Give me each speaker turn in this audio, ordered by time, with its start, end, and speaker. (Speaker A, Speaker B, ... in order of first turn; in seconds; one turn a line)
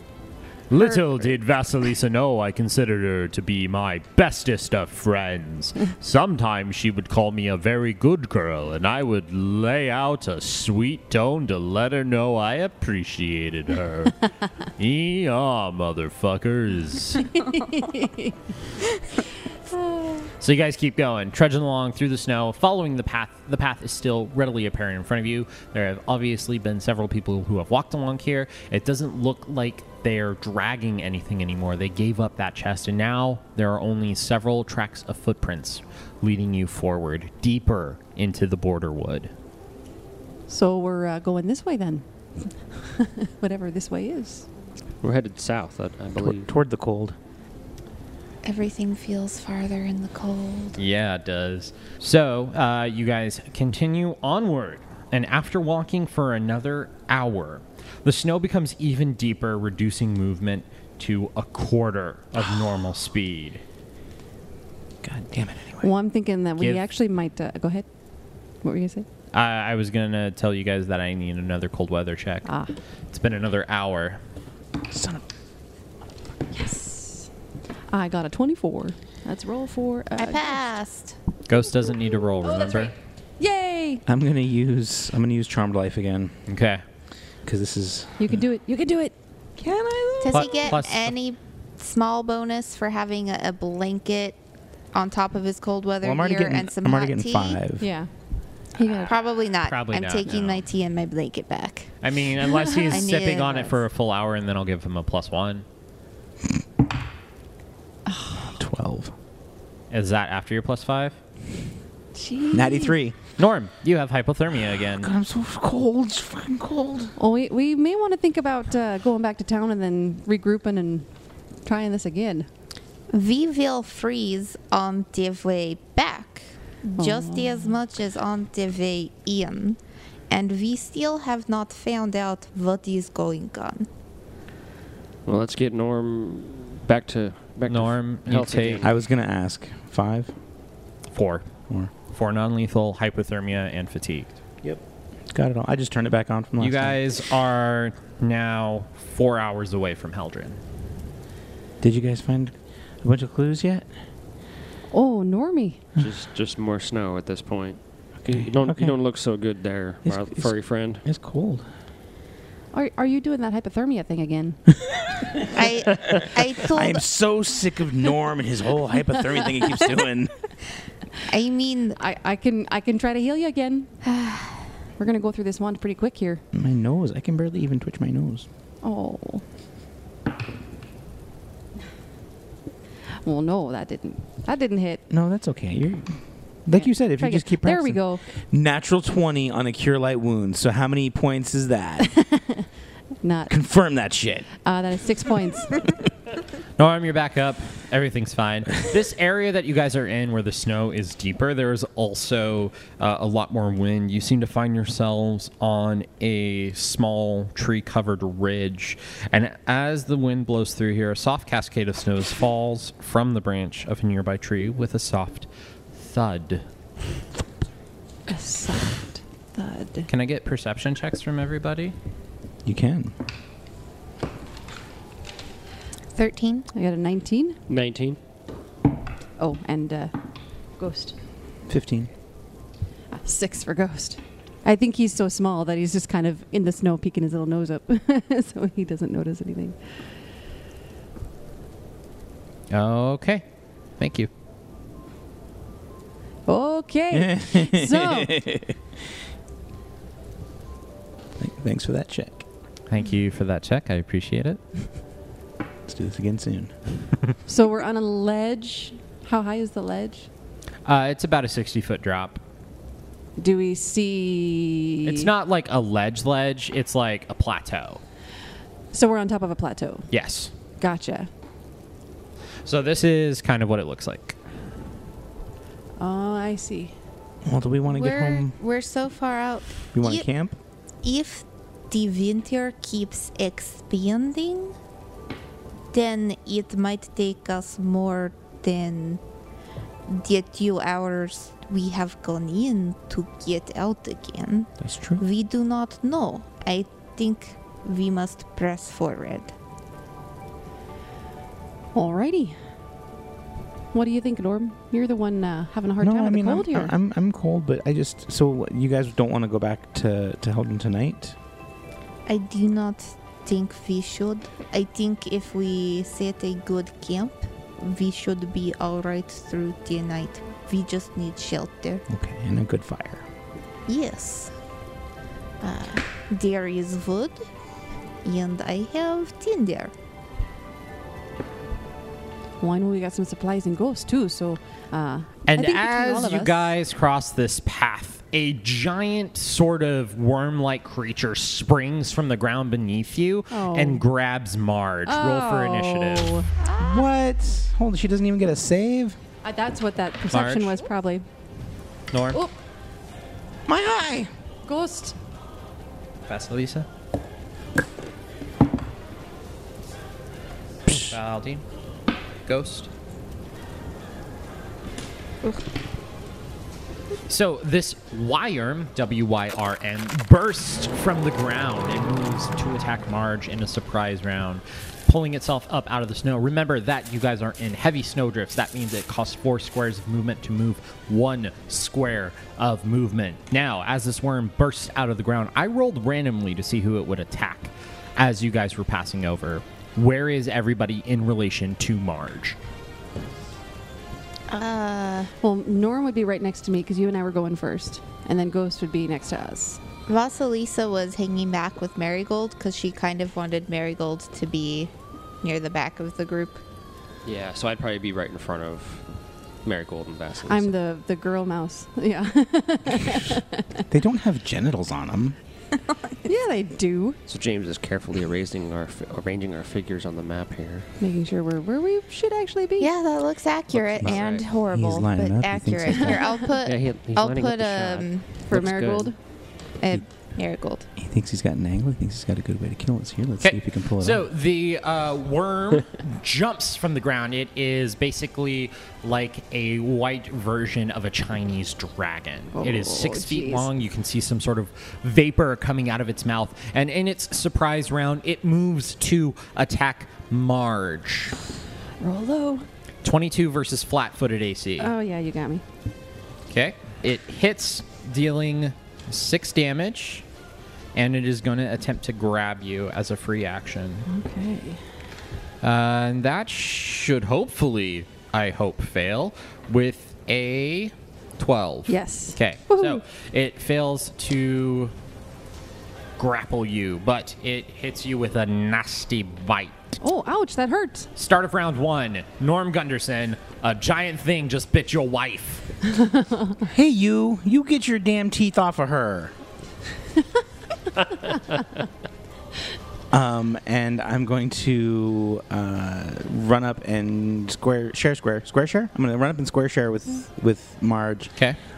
Speaker A: 0.7-17.4
Speaker B: 17.4-18.3
Speaker A: 20.4-39.3
Speaker B: 40.5-44.5
Speaker C: 45.0-46.5
Speaker D: 46.2-47.1
Speaker E: 48.4-50.8
Speaker A: 50.8-63.6
Speaker D: 65.0-65.9
Speaker B: 65.8-67.8
Speaker A: 66.6-66.8
Speaker B: 68.6-69.0
Speaker A: 69.3-72.5
Speaker B: 72.5-72.7
Speaker A: 73.1-74.2
Speaker D: 74.9-75.2
Speaker B: 76.5-77.3
Speaker B: 77.9-80.6
Speaker E: 80.2-81.2
Speaker A: 81.5-82.9
Speaker B: 82.4-84.0
Speaker D: 84.1-86.4
Speaker A: 86.5-86.8
Speaker D: 87.4-88.4
Speaker B: 88.2-90.5
Speaker E: 90.2-94.4
Speaker A: 90.3-91.1
Speaker E: 94.9-97.6
Speaker D: 96.0-97.9
Speaker B: 97.8-98.1
Speaker B: 98.7-99.1
Speaker E: 99.1-101.9
Speaker A: 99.6-100.6
Speaker A: 102.0-105.6
Speaker E: 102.9-103.8
Speaker B: 108.1-108.5
Speaker D: 108.6-109.1
Speaker A: 109.9-111.2
Speaker B: 112.1-113.0
Speaker D: 112.5-113.2
Speaker A: 113.4-115.1
Speaker D: 115.0-117.1
Speaker B: 117.2-121.1
Speaker B: 121.6-122.5
Speaker E: 123.1-129.8
Speaker B: 126.9-127.7
Speaker E: 130.3-133.9
Speaker C: 135.2-138.9
Speaker A: 137.7-138.8
Speaker D: 138.8-140.3
Speaker A: 141.1-141.5
Speaker A: 142.1-144.4
Speaker D: 145.3-147.0
Speaker A: 146.6-150.6
Speaker D: 151.8-153.9
Speaker B: 154.9-155.8
Speaker C: 156.0-161.0
Speaker D: 158.3-158.9
Speaker D: 160.1-160.5
Speaker D: 161.0-161.7
Speaker B: 162.7-164.6
Speaker D: 164.9-165.4
Speaker E: 165.5-167.0
Speaker D: 166.1-170.4
Speaker E: 171.3-172.0
Speaker B: 172.0-173.9
Speaker E: 174.0-174.7
Speaker B: 175.0-176.4
Speaker D: 176.5-178.5
Speaker B: 178.8-179.4
Speaker B: 183.2-185.0
Speaker D: 185.1-192.1
Speaker B: 186.7-188.2
Speaker B: 192.0-192.7
Speaker B: 193.2-193.5
Speaker D: 193.5-194.5
Speaker B: 194.6-195.8
Speaker A: 196.8-216.7
Speaker B: 218.3-220.1
Speaker A: 220.1-221.9
Speaker D: 222.6-223.1
Speaker E: 226.2-226.7
Speaker B: 226.7-227.6
Speaker C: 227.7-228.2
Speaker B: 229.4-230.1
Speaker B: 230.8-231.2
Speaker D: 231.7-232.1
Speaker B: 233.1-239.8
Speaker A: 242.7-243.4
Speaker A: 244.0-244.3
Speaker B: 246.5-248.4
Speaker D: 247.1-248.8
Speaker D: 251.4-252.4
Speaker A: 252.9-254.6
Speaker D: 255.8-256.7
Speaker B: 257.5-260.3
Speaker A: 260.8-262.4
Speaker B: 263.4-265.3
Speaker A: 265.0-268.0
Speaker B: 268.9-270.1
Speaker A: 270.1-270.5
Speaker B: 270.8-271.3
Speaker A: 272.6-274.4
Speaker B: 276.0-276.9
Speaker D: 277.4-278.5
Speaker E: 277.8-280.3
Speaker D: 279.9-280.6
Speaker E: 281.0-284.7
Speaker E: 285.9-289.2
Speaker E: 290.1-299.5
Speaker D: 294.8-295.2
Speaker B: 301.9-302.6
Speaker B: 303.9-306.9
Speaker D: 306.0-311.4
Speaker E: 312.2-322.0
Speaker D: 322.1-323.2
Speaker E: 323.9-324.5
Speaker E: 325.6-327.4
Speaker E: 328.2-329.9
Speaker B: 332.6-336.7
Speaker A: 335.5-346.3
Speaker B: 343.5-344.0
Speaker B: 345.1-346.5
Speaker E: 346.6-347.0
Speaker D: 346.8-349.2
Speaker B: 349.4-351.2
Speaker A: 350.3-350.8
Speaker A: 352.1-352.4
Speaker D: 353.7-354.3
Speaker B: 354.6-355.1
Speaker A: 356.2-356.9
Speaker A: 360.9-361.6
Speaker A: 362.4-362.9
Speaker A: 367.3-392.6
Speaker E: 394.5-395.3
Speaker B: 395.4-399.8
Speaker E: 400.1-404.9
Speaker E: 405.4-406.6
Speaker C: 407.2-409.1
Speaker C: 409.6-410.7
Speaker B: 410.5-413.8
Speaker D: 413.9-415.4
Speaker B: 416.2-417.2
Speaker C: 417.3-420.9
Speaker B: 421.0-422.9
Speaker E: 422.8-428.4
Speaker C: 423.7-424.4
Speaker D: 424.0-426.2
Speaker C: 426.6-429.1
Speaker B: 428.5-429.1
Speaker E: 429.8-430.9
Speaker D: 431.0-434.2
Speaker A: 433.4-451.4
Speaker B: 442.5-443.7
Speaker B: 452.0-452.6
Speaker A: 453.0-454.9
Speaker B: 454.8-455.6
Speaker A: 456.5-460.2
Speaker A: 460.9-464.1
Speaker B: 464.1-464.8
Speaker A: 465.6-474.9
Speaker B: 471.9-473.0
Speaker A: 476.2-479.9
Speaker B: 480.0-481.1
Speaker A: 481.1-485.7
Speaker B: 486.1-486.4
Speaker D: 486.6-489.3
Speaker D: 493.1-501.3